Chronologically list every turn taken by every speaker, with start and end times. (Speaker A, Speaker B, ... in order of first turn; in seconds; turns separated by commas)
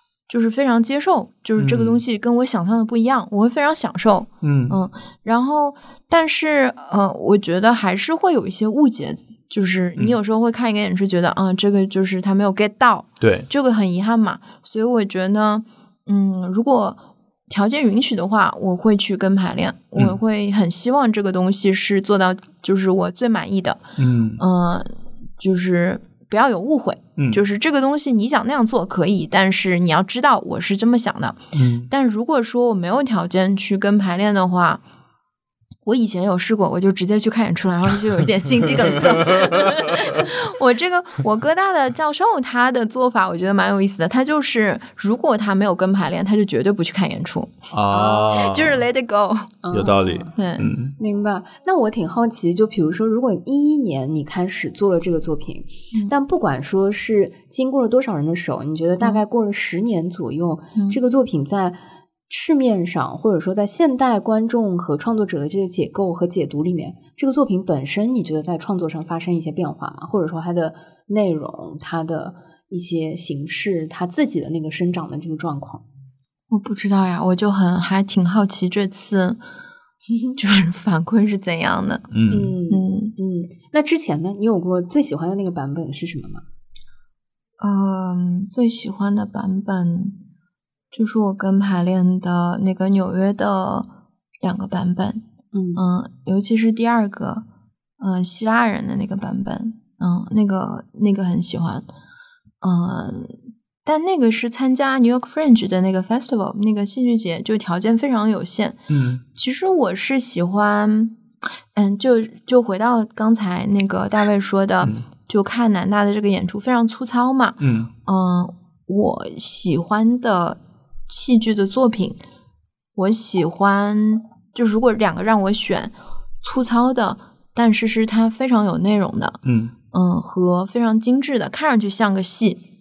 Speaker A: 0.3-23.8, Speaker B: 1.6-2.0, Speaker B: 4.4-4.8, Speaker B: 13.2-13.5, Speaker B: 24.0-24.4, Speaker A: 24.4-34.8, Speaker B: 31.5-31.9, Speaker A: 35.9-49.6, Speaker B: 38.6-40.2, Speaker B: 47.7-48.8, Speaker C: 48.0-48.3, Speaker C: 49.6-50.3, Speaker B: 49.7-51.0, Speaker A: 50.4-50.7, Speaker C: 51.0-61.8, Speaker C: 62.3-75.8, Speaker A: 76.5-79.4, Speaker A: 80.4-82.1, Speaker B: 82.1-82.6, Speaker C: 82.3-86.4, Speaker A: 82.7-83.1, Speaker A: 87.6-90.2, Speaker A: 90.9-93.9, Speaker A: 94.4-95.2, Speaker C: 95.5-95.8, Speaker A: 95.8-97.4, Speaker A: 98.0-101.9, Speaker A: 102.6-108.8, Speaker B: 108.9-109.2, Speaker A: 109.3-111.2, Speaker A: 111.7-122.2, Speaker B: 117.6-117.9, Speaker A: 123.0-129.4, Speaker B: 129.4-129.7, Speaker A: 129.9-132.6